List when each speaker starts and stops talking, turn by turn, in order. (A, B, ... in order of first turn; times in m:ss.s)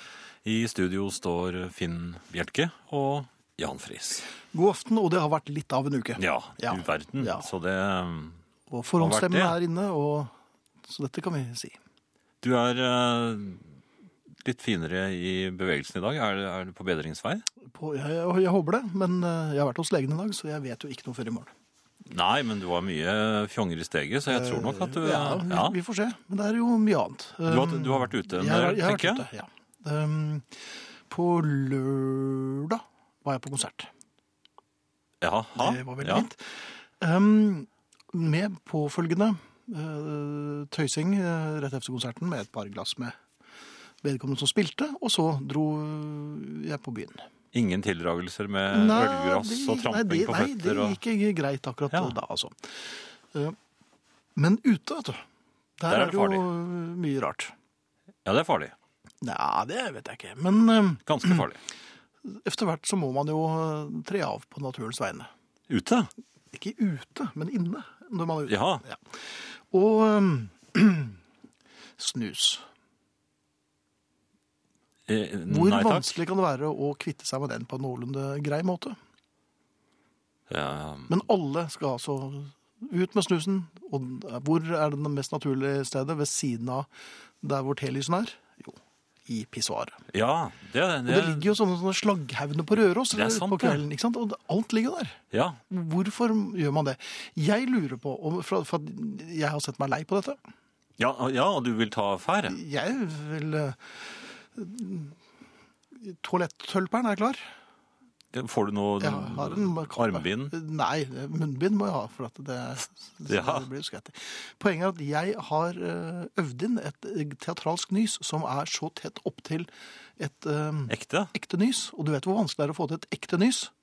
0:00.4-0:04.3 A
0:04.5-0:07.5 B
0:06.2-0:08.4 A
0:08.7-0:10.3 B
0:09.0-0:09.6 A
0:10.8-0:11.8 B
0:12.4-0:13.7 A
0:14.4-0:17.5 A
0:17.6-0:21.5 B
0:22.1-0:25.8 A
0:24.3-0:33.9 B
0:27.4-0:29.3 A
0:35.2-0:36.3 A
0:35.6-0:43.2 B
0:44.0-0:47.2 B
0:47.5-0:51.0 A
0:48.7-0:53.6 B
0:54.4-0:55.2 B
0:55.8-0:57.5 B
0:55.9-0:56.5 A
0:58.2-0:58.8 A
0:59.2-1:01.4 B
1:01.1-1:01.6 A
1:02.2-1:05.3 B
1:05.7-1:06.1 A
1:06.5-1:11.2 B
1:08.5-1:08.9 A
1:12.0-1:12.7 B
1:15.1-1:16.2 A
1:15.5-1:19.0 B
1:20.5-1:21.1 A
1:21.1-1:26.9 B
1:27.4-1:30.0 B
1:30.1-1:31.5 A
1:31.0-1:40.4 B
1:33.1-1:33.8 A
1:35.3-1:35.6 A
1:41.0-1:42.6 A
1:42.5-1:45.2 B
1:45.9-1:47.4 B
1:48.3-1:50.6 A
1:49.0-2:03.7 B
1:53.3-1:53.7 A
2:00.9-2:01.3 A